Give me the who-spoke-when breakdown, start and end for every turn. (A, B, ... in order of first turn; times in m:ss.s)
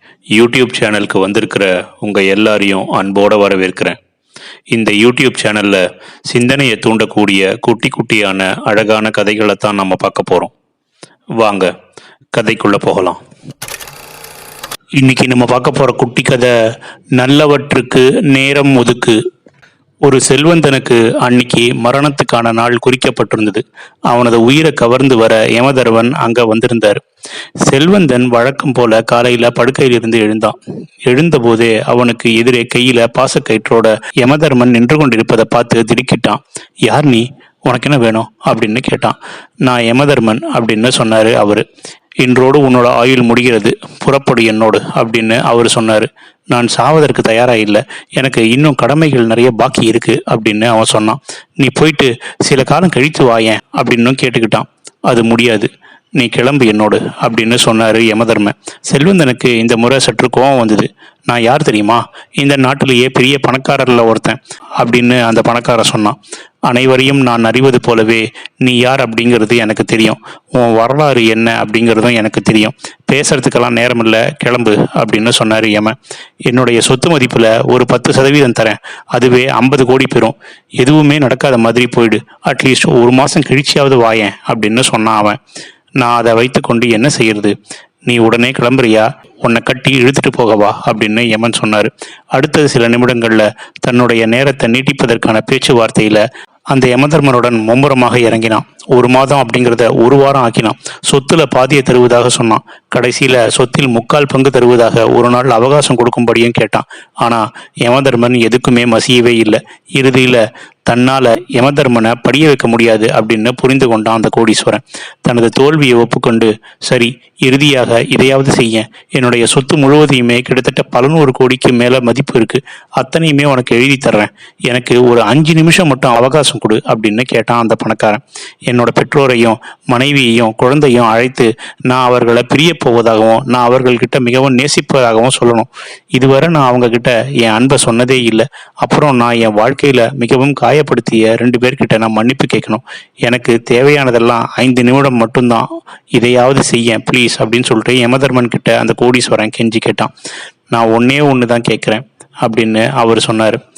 0:00.4-0:04.0 A
0:04.7-0:10.5 A
0:11.4-0:11.7 A
0:12.3-0:13.2 A
0:15.0-0:16.5 A
0:17.2-0:19.2 A
0:20.0-0:27.0 A
0:27.7-0:41.6 A
0:42.2-1:06.2 A
1:06.7-1:16.0 A
1:16.5-1:25.4 A
1:26.0-1:27.6 A
1:28.1-2:30.1 A
2:30.7-2:33.6 A